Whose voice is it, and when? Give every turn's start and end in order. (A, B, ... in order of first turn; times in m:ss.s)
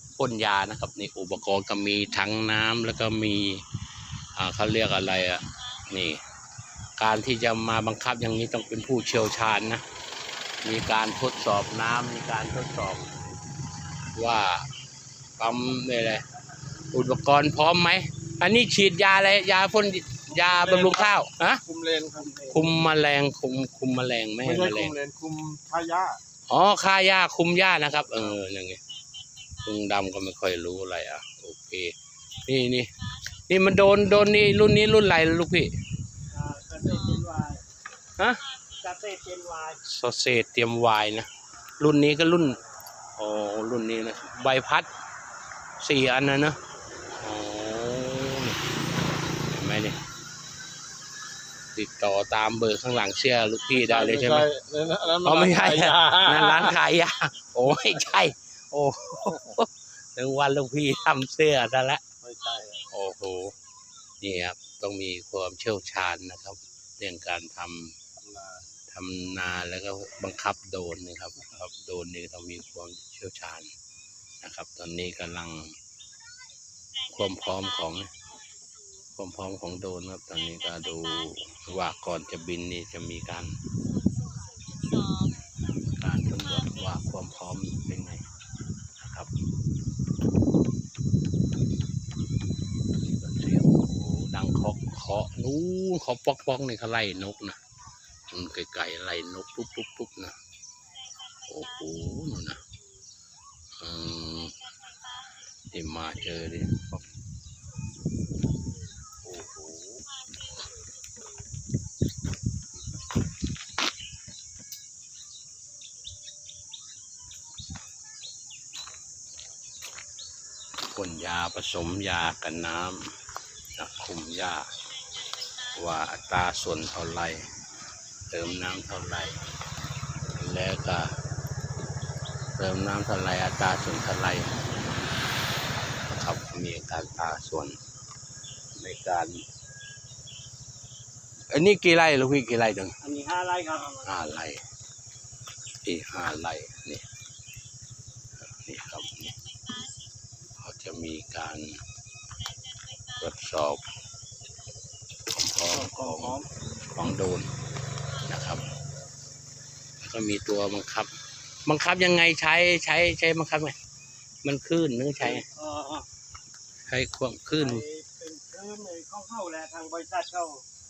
0:00.2-0:03.6 A
0:04.4-0:06.2 A
0:07.0-0:09.8 A
0:10.6-0:13.1 A
0:14.1-0:14.7 A
0:15.4-0:16.2 A
0:16.9-0:21.6 A
0:20.3-0:22.6 B
0:22.5-0:25.0 A
0:24.4-0:26.2 B
0:26.5-0:28.8 A
0:29.6-0:31.9 A
0:32.4-0:32.9 A
0:33.5-0:35.7 A
0:36.3-0:37.6 C
0:38.2-0:38.4 A
0:38.8-0:39.8 C
0:39.8-0:41.3 A
0:41.8-0:42.6 A
0:43.2-0:44.9 A
0:45.8-0:46.6 A
0:47.2-0:48.6 A
0:49.5-0:50.0 A
0:51.8-0:54.5 A
0:53.8-0:56.8 B
0:55.2-1:02.0 A
1:02.2-1:02.8 B
1:02.9-1:03.6 A
1:04.2-1:08.0 A
1:08.2-1:08.6 B
1:08.9-1:13.7 A
1:14.4-1:15.8 A
1:17.1-1:18.1 A
1:19.2-1:23.6 A
1:25.8-1:28.2 A
1:29.0-1:29.3 A
1:33.0-1:37.6 A
1:38.3-1:40.4 A
1:41.4-1:42.6 A
1:43.8-1:44.6 A
1:45.7-1:47.0 A
1:49.2-1:50.0 A
2:00.9-2:03.1 A
2:03.8-2:04.7 A
2:05.7-2:07.5 A
2:08.3-2:09.4 A
2:10.3-2:11.2 A
2:12.6-2:14.8 A
2:16.0-2:17.8 A
2:18.8-2:19.4 A
2:21.5-2:23.0 A
2:23.0-2:24.1 C
2:24.0-2:24.6 A
2:25.8-2:27.0 A
2:28.4-2:29.4 A
2:30.6-2:31.8 A
2:33.2-2:33.9 A
2:35.3-2:37.5 A
2:38.3-2:38.6 A
2:40.0-2:41.1 A
2:41.7-2:43.8 A
2:44.4-2:45.5 A
2:45.2-2:46.1 C
2:46.9-2:47.8 A
2:47.5-2:50.6 C